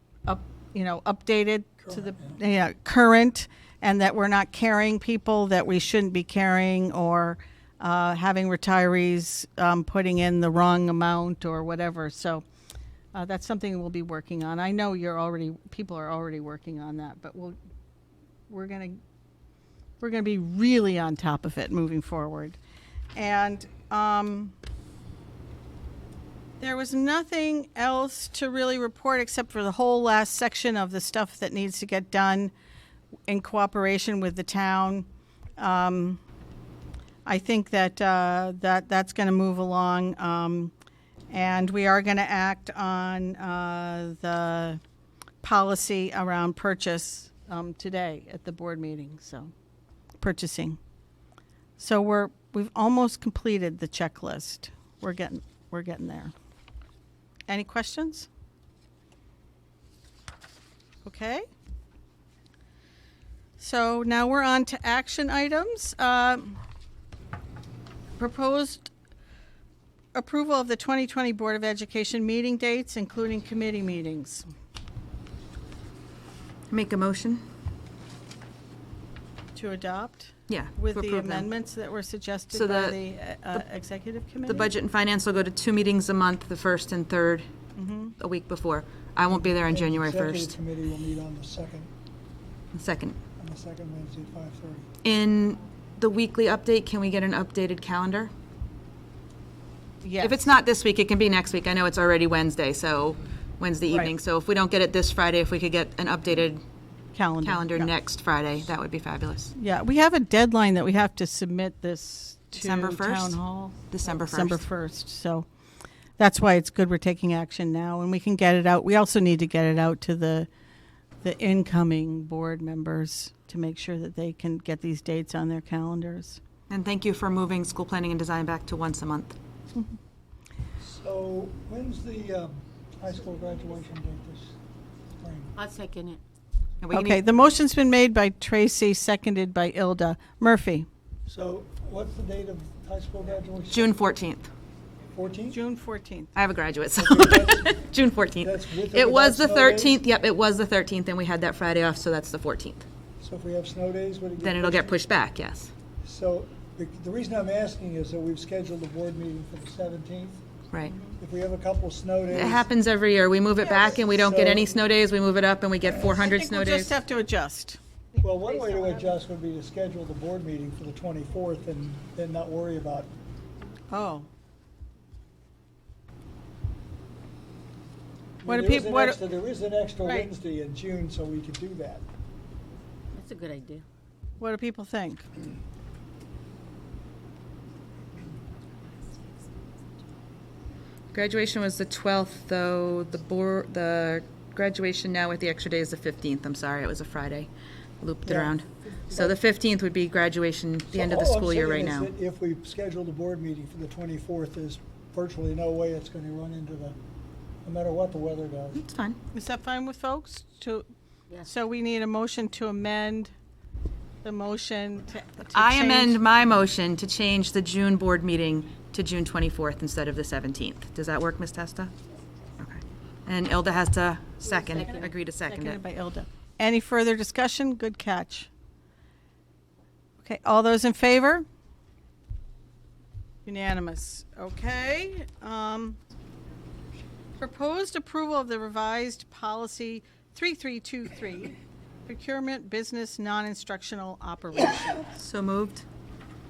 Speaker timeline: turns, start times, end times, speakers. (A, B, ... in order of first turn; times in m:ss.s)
0:00.2-0:12.4 A
0:01.8-0:02.4 B
0:13.1-0:17.6 A
0:18.5-0:19.0 A
0:20.0-0:22.6 A
0:23.1-0:24.5 A
0:26.6-0:32.5 A
0:33.3-0:36.2 A
0:37.2-0:40.7 A
0:41.3-0:44.8 A
0:45.4-0:49.5 A
0:50.2-0:50.8 A
0:51.8-0:56.3 A
0:57.5-0:58.3 A
1:01.0-1:01.4 A
1:03.6-1:06.6 A
1:08.2-1:08.9 A
1:10.1-1:14.4 A
1:16.7-1:17.4 C
1:19.5-1:24.7 A
1:20.5-1:21.5 C
1:22.5-1:23.0 C
1:24.5-1:27.5 C
1:27.7-1:28.1 A
1:28.2-1:30.6 C
1:29.3-1:31.9 B
1:32.7-1:33.2 C
1:33.4-1:34.9 B
1:35.0-1:38.3 C
1:40.0-1:40.5 A
1:40.2-1:46.6 C
1:47.1-1:47.9 A
1:47.4-1:49.5 C
1:49.5-1:55.4 A
1:52.6-1:53.4 C
1:53.9-1:54.6 C
1:56.2-2:00.5 A
2:01.2-2:06.4 A
2:06.7-2:09.4 C
2:10.8-2:14.5 B
2:15.2-2:15.5 B
2:15.6-2:16.2 D
2:16.8-2:17.2 C
2:16.9-2:20.9 A
2:21.3-2:24.0 B
2:23.7-2:24.5 C
2:25.1-2:25.6 B
2:25.5-2:26.3 A
2:26.4-2:32.8 C
2:27.0-2:27.8 B
2:28.4-2:30.0 B
2:33.2-2:35.0 B
2:34.4-2:35.7 C
2:36.0-2:40.4 B
2:40.7-2:41.0 C
2:41.0-2:42.7 B
2:42.3-2:46.9 C
2:43.7-2:44.7 B
2:45.8-2:46.2 B
2:46.0-2:47.8 A
2:48.2-2:53.1 B
2:48.3-2:49.0 D
2:53.9-2:54.3 A
2:58.4-3:02.0 B
2:58.4-2:59.2 A
3:00.0-3:00.3 A
3:03.1-3:03.8 D
3:04.4-3:05.3 A
3:11.1-3:17.5 C
3:18.0-3:22.1 C
3:18.2-3:19.3 B
3:20.9-3:27.0 B
3:27.6-3:28.8 B
3:28.7-3:29.2 C
3:29.3-3:30.8 A
3:31.4-3:33.3 A
3:34.2-3:36.2 A
3:35.5-3:41.9 C
3:42.6-3:45.8 C
3:44.5-3:45.1 D
3:44.8-3:48.5 A
3:50.2-3:51.4 A
3:53.4-3:56.0 A
3:57.4-4:05.2 A
4:05.0-4:05.8 C